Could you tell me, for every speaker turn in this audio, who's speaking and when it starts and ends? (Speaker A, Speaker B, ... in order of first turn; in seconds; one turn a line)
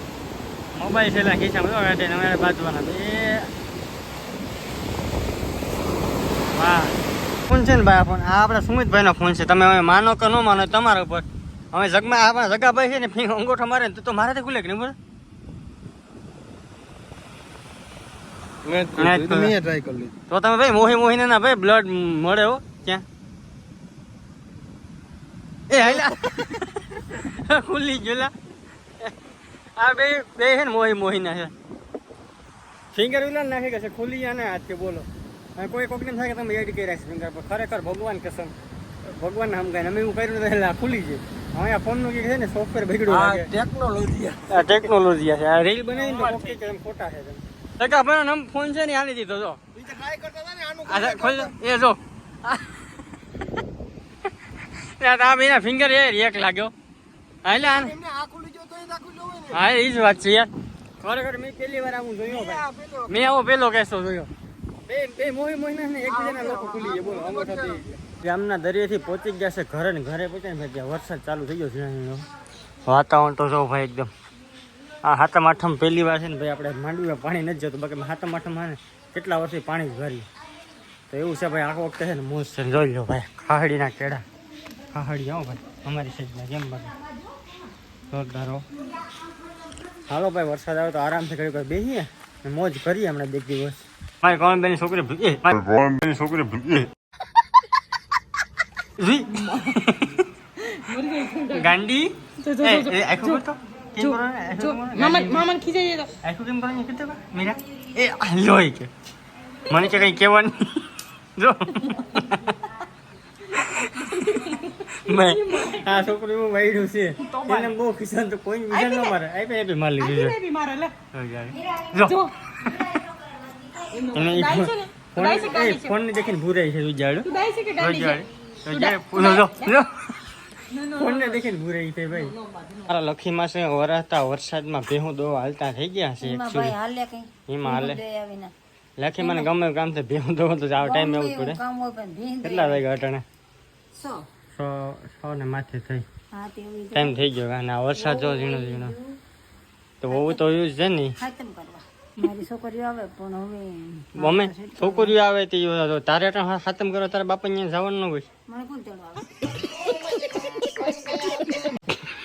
Speaker A: 0.7-3.5
Speaker A: 6.5-7.0
Speaker A: 7.5-14.9
Speaker B: 18.6-20.1
Speaker A: 18.9-19.6
Speaker A: 20.3-23.0
Speaker A: 25.7-28.3
Speaker A: 29.8-31.5
Speaker A: 32.9-38.5
Speaker A: 39.0-43.5
Speaker B: 43.1-44.4
Speaker A: 44.5-49.6
Speaker B: 49.8-51.5
Speaker A: 50.8-52.8
Speaker A: 54.8-56.7
Speaker A: 57.4-58.0
Speaker B: 58.0-59.5
Speaker A: 59.5-64.3
Speaker B: 62.7-63.0
Speaker A: 64.9-72.3
Speaker B: 66.2-67.8
Speaker A: 72.8-74.1
Speaker A: 75.0-80.2
Speaker A: 81.1-84.2
Speaker A: 84.9-87.0
Speaker A: 88.1-88.6
Speaker A: 90.1-96.9
Speaker A: 99.0-100.2
Speaker C: 99.3-99.8
Speaker C: 100.6-101.8
Speaker A: 101.5-105.5
Speaker C: 102.4-103.4
Speaker C: 104.0-106.1
Speaker A: 106.2-108.9
Speaker A: 109.7-112.5
Speaker C: 113.5-116.2
Speaker A: 113.5-114.2
Speaker A: 114.9-120.4
Speaker C: 117.2-117.7
Speaker C: 118.7-119.2
Speaker C: 120.0-120.9
Speaker A: 121.1-122.9
Speaker D: 121.5-121.9
Speaker C: 122.0-122.3
Speaker D: 122.6-124.2
Speaker C: 123.9-126.0
Speaker A: 124.1-136.8
Speaker C: 127.2-129.7
Speaker C: 130.7-131.4
Speaker C: 132.1-132.9
Speaker D: 136.2-138.5
Speaker A: 137.5-138.0
Speaker A: 139.0-141.6
Speaker D: 139.2-139.5
Speaker D: 140.8-142.8
Speaker A: 142.4-143.2
Speaker D: 143.9-144.3
Speaker A: 144.5-146.0
Speaker D: 146.3-147.2
Speaker A: 146.9-148.9
Speaker D: 148.0-149.2
Speaker A: 150.0-151.2
Speaker D: 150.1-150.4
Speaker D: 151.2-155.1
Speaker A: 154.2-158.3
Speaker D: 158.5-161.6